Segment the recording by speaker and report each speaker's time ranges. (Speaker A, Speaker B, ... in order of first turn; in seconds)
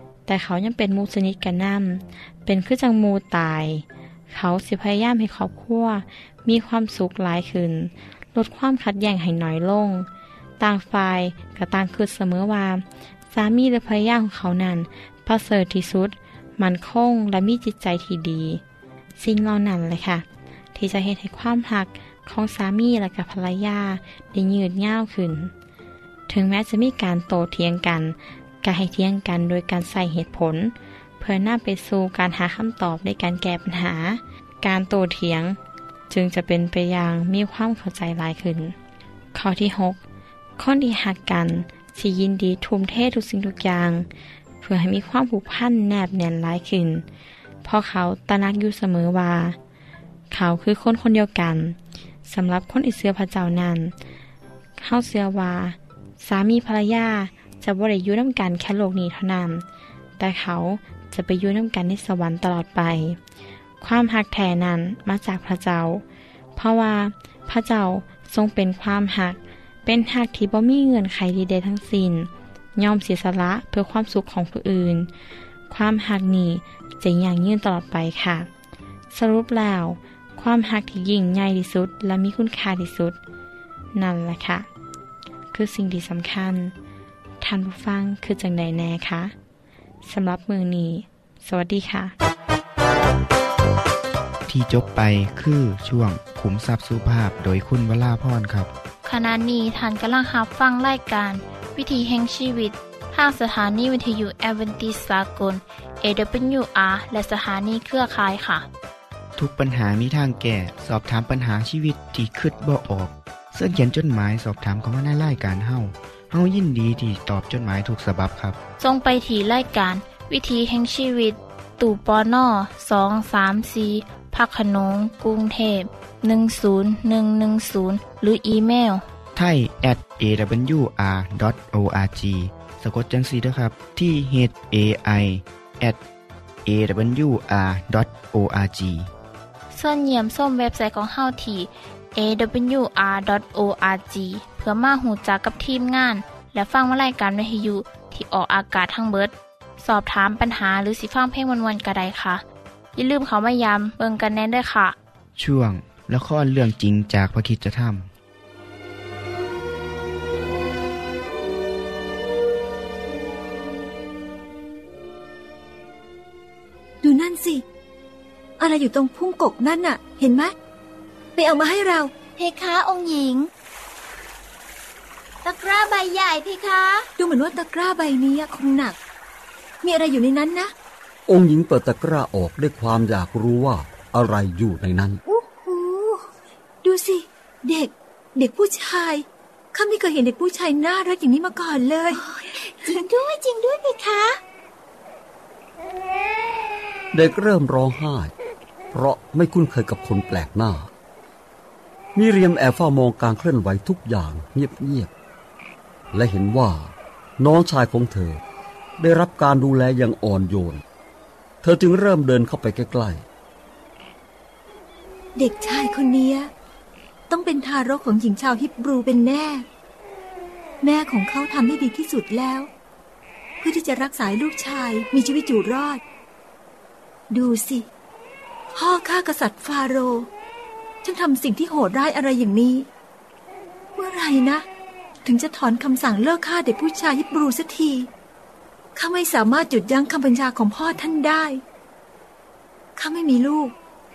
Speaker A: 0.3-10.1, 10.6-18.6, 19.2-25.5, 26.3-35.6, 36.1-38.8, 39.3-40.0, 40.6-44.1, 44.6-47.0, 47.6-49.6, 50.3-53.9, 54.8-59.6, 60.2-63.2, 63.8-66.0, 66.5-75.1, 75.7-78.5, 79.1-83.2, 83.9-84.7, 85.5-86.7, 87.4-89.3, 90.0-92.1
Speaker B: 94.5-98.7, 109.4-118.6, 129.4-136.0, 136.7-139.1, 155.4-158.1
Speaker C: 99.0-108.7, 118.8-129.0, 139.7-152.4, 153.0-154.9
Speaker D: 167.0-167.6, 168.6-170.5, 171.4-172.1, 177.2-179.0, 179.8-180.7, 186.8-192.2, 215.3-216.5, 217.3-219.7, 220.8-222.7, 223.6-226.0, 227.3-227.9, 228.8-230.3, 231.0-232.9, 234.0-234.7, 235.2-238.1, 239.0-241.6, 243.0-243.7
Speaker E: 172.3-173.5, 175.4-177.1, 192.1-194.4
Speaker F: 181.3-185.2, 197.1-198.3, 198.9-200.9, 202.2-205.1, 206.1-208.4, 209.0-210.8, 211.6-213.2